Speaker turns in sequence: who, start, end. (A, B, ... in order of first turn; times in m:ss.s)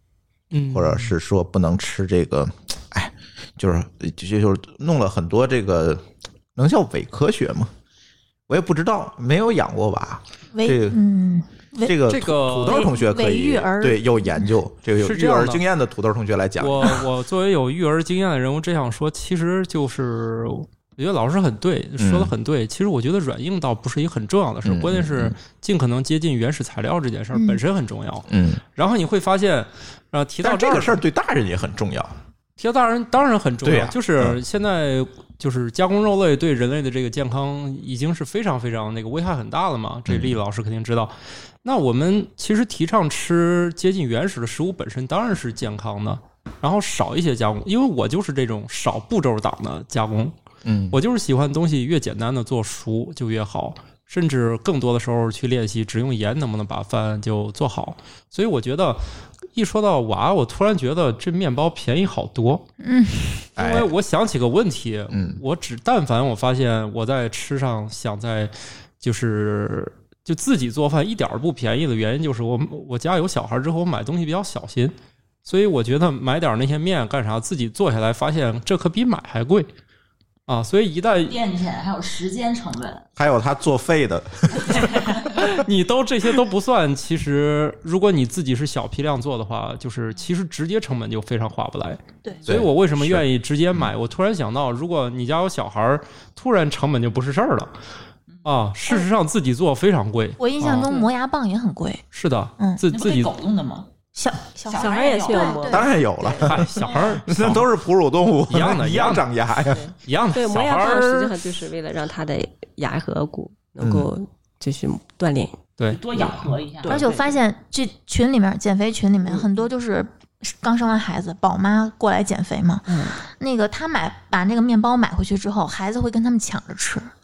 0:00.5-0:01.1 A
0:00.7-0:06.0 B
0:06.6-0:07.7 B
0:08.5-0:11.0 B
0:10.5-0:11.9 C
0:11.8-0:17.0 B
0:12.1-0:12.9 A
0:12.7-0:14.3 C
0:15.0-0:15.6 A
0:16.6-0:31.0 A
0:22.0-0:22.3 B
0:24.6-0:25.4 B
0:27.4-0:27.6 C
0:28.3-0:28.6 B
0:30.4-0:32.2 B
0:32.6-0:50.3 A
0:33.6-0:34.4 B
0:40.1-0:40.4 B
0:50.6-0:51.0 B
0:50.9-1:02.7 A
1:02.8-1:03.5 C
1:03.6-1:03.9 B
1:03.6-1:14.9 A
1:05.1-1:05.4 B
1:15.4-1:19.7 A
1:20.5-1:21.4 A
1:21.2-1:23.1 D
1:23.2-1:25.1 B
1:24.6-1:25.5 D
1:25.4-1:37.7 A
1:32.5-1:33.2 B
1:38.4-1:40.9 A
1:40.4-1:42.0 C
1:42.1-1:43.3 A
1:42.9-1:43.9 D
1:44.2-1:45.9 C
1:44.6-1:45.8 D
1:44.8-1:46.7 E
1:45.7-1:49.9 B
1:46.4-1:47.7 A
1:46.8-1:47.2 D
1:48.5-1:49.3 A
1:50.0-1:51.4 A
1:50.3-1:55.6 E
1:53.8-1:54.1 B
1:55.8-1:56.5 A
1:55.9-1:57.3 D
1:56.9-2:07.1 C
1:59.2-1:59.7 E
2:02.9-2:03.2 E